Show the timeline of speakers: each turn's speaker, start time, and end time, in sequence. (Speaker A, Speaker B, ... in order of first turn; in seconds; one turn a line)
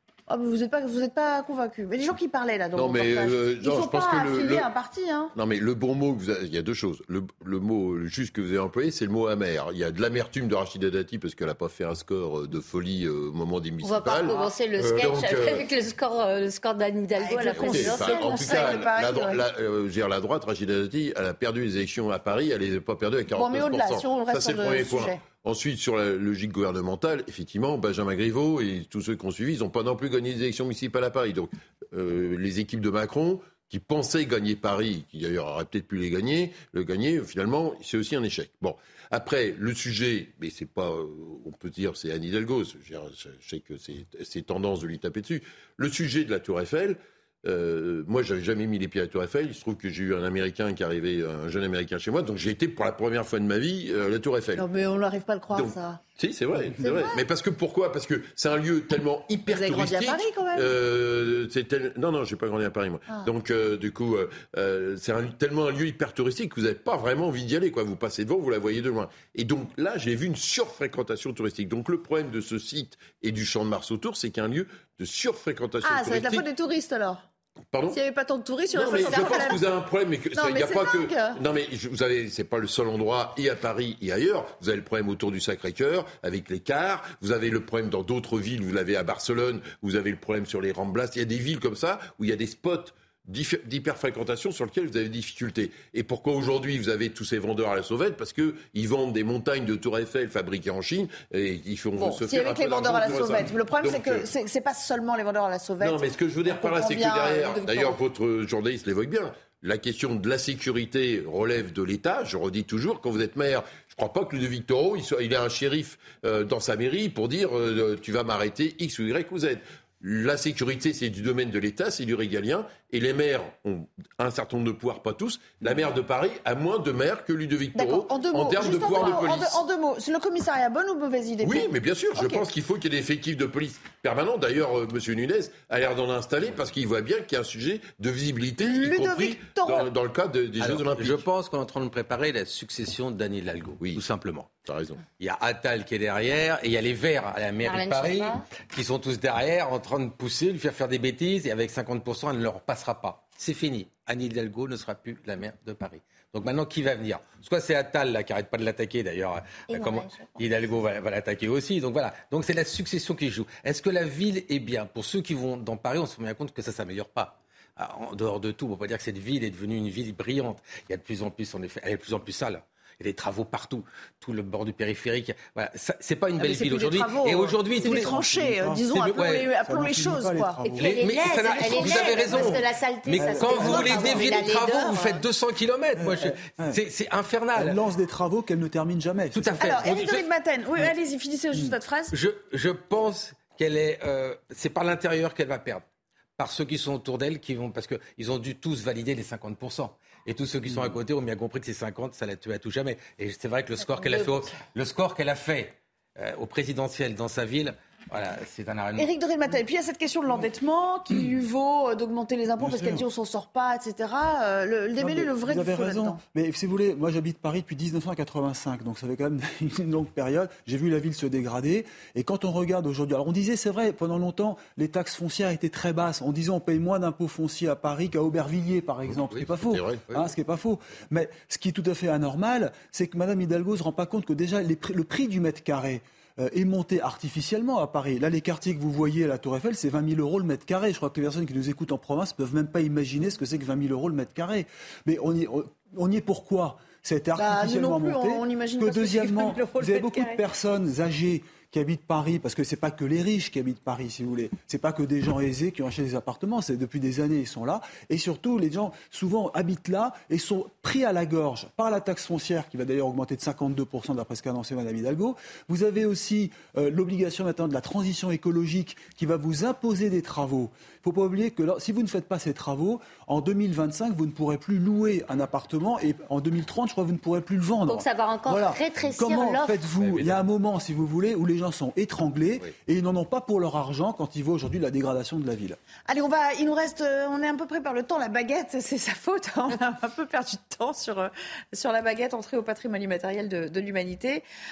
Speaker A: 0.3-5.3
Speaker B: 2.7-4.7
Speaker B: 5.3-15.7
Speaker C: 13.8-18.8
Speaker A: 17.2-19.4
Speaker B: 17.5-54.6
Speaker A: 23.3-25.2
Speaker A: 54.5-56.0
Speaker B: 55.5-76.5
Speaker A: 56.8-57.2
Speaker A: 59.5-60.7
Speaker A: 75.8-77.3
Speaker B: 77.7-78.0
Speaker A: 77.9-79.6
Speaker B: 78.7-104.3
Speaker A: 80.3-81.4
Speaker A: 102.0-108.0
Speaker B: 105.8-129.6
Speaker A: 127.7-132.4
Speaker B: 131.4-141.2
Speaker A: 138.6-139.9
Speaker D: 140.6-144.5
Speaker B: 144.6-145.0
Speaker D: 145.2-178.2
Speaker C: 147.6-148.4
Speaker C: 159.7-160.7
Speaker A: 176.4-180.8
Speaker E: 177.8-178.9
Speaker D: 179.0-179.5
Speaker E: 179.6-180.9
Speaker C: 180.8-185.2
Speaker D: 180.8-187.8
Speaker E: 181.6-182.5
Speaker E: 183.2-184.3
Speaker E: 186.0-186.8
Speaker E: 187.6-189.9
Speaker D: 189.3-190.2
Speaker A: 189.6-192.1
Speaker D: 192.1-195.8
Speaker D: 196.4-209.1
Speaker E: 200.7-200.9
Speaker C: 203.8-204.5
Speaker A: 209.0-216.2
Speaker E: 212.6-213.0
Speaker E: 215.0-285.8
Speaker B: 229.3-230.2
Speaker A: 247.4-250.4
Speaker C: 277.9-279.9
Speaker D: 280.0-280.3
Speaker A: 286.1-294.4